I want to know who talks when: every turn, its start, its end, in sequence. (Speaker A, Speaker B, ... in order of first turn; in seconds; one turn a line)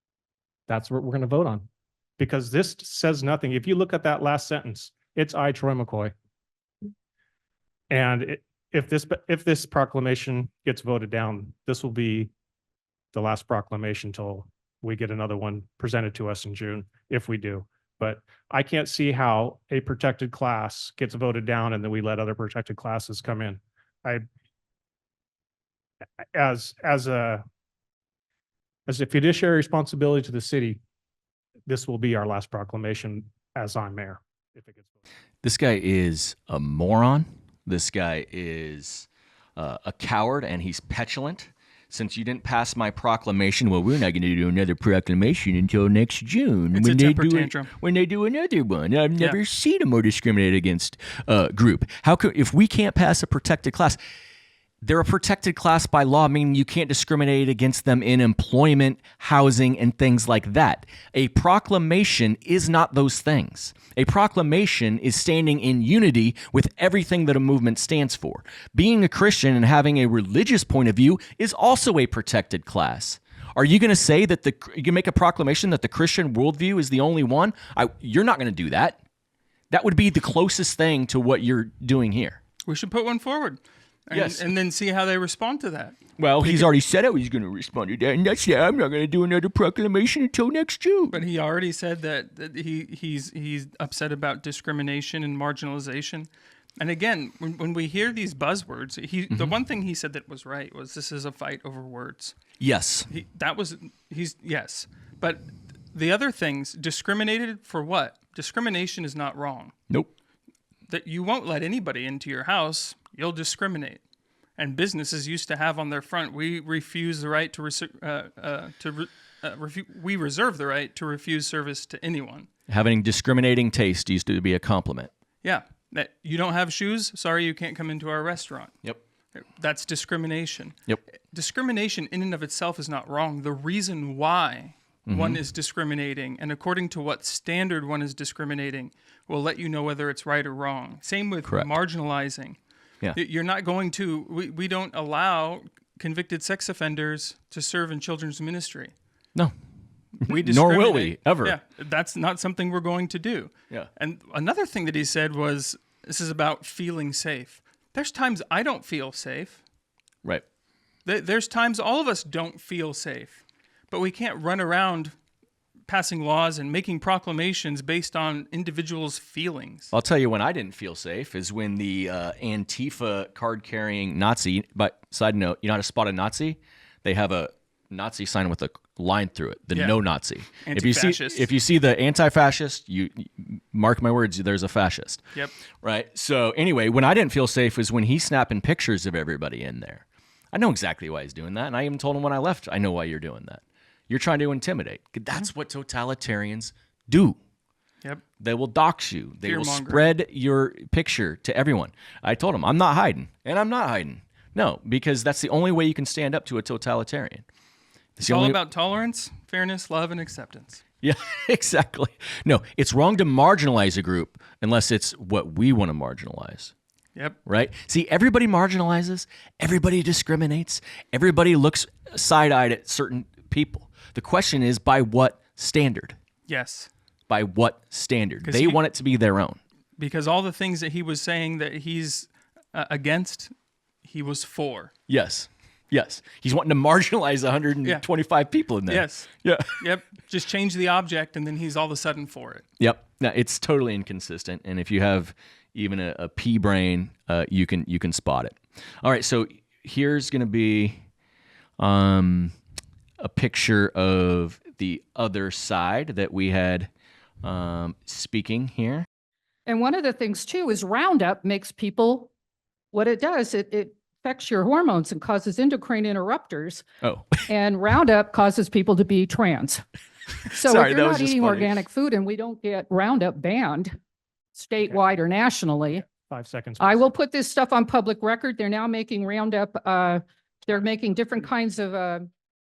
Speaker A: 0.7-1.7
Speaker A: 2.2-6.1
Speaker A: 7.9-12.3
Speaker A: 13.1-24.2
Speaker A: 26.4-27.4
Speaker A: 28.9-30.8
Speaker A: 31.7-35.0
Speaker B: 35.4-54.0
Speaker C: 46.7-47.7
Speaker B: 54.8-79.0
Speaker B: 79.7-82.4
Speaker C: 82.7-86.7
Speaker B: 84.1-84.5
Speaker B: 86.2-91.2
Speaker C: 91.1-102.4
Speaker B: 99.3-99.6
Speaker B: 102.6-103.1
Speaker C: 103.1-109.7
Speaker C: 110.9-114.0
Speaker C: 114.6-122.5
Speaker B: 122.7-125.1
Speaker C: 125.4-128.7
Speaker C: 129.3-130.8
Speaker C: 131.3-142.6
Speaker B: 135.1-135.4
Speaker B: 141.4-141.7
Speaker C: 143.2-148.9
Speaker C: 150.2-159.6
Speaker B: 150.2-151.6
Speaker C: 161.1-165.1
Speaker C: 165.9-169.9
Speaker B: 169.9-185.2
Speaker C: 179.7-180.0
Speaker C: 180.6-181.5
Speaker B: 185.8-197.4
Speaker B: 198.4-207.5
Speaker C: 199.4-200.1
Speaker B: 208.2-208.6
Speaker C: 208.2-210.8
Speaker B: 211.0-216.7
Speaker B: 217.5-226.2
Speaker C: 226.5-226.9
Speaker B: 227.3-229.6
Speaker C: 228.4-228.8
Speaker C: 230.0-233.5
Speaker C: 234.0-234.9
Speaker B: 235.1-239.8
Speaker C: 238.9-242.6
Speaker B: 242.8-251.0
Speaker B: 251.8-252.6
Speaker B: 253.2-256.9
Speaker B: 257.4-259.1
Speaker D: 259.7-262.3
Speaker D: 262.9-266.9
Speaker B: 267.0-267.4
Speaker D: 267.5-269.8
Speaker B: 270.5-271.8
Speaker D: 270.5-273.9
Speaker D: 274.5-276.1
Speaker A: 276.1-277.1
Speaker D: 276.8-282.3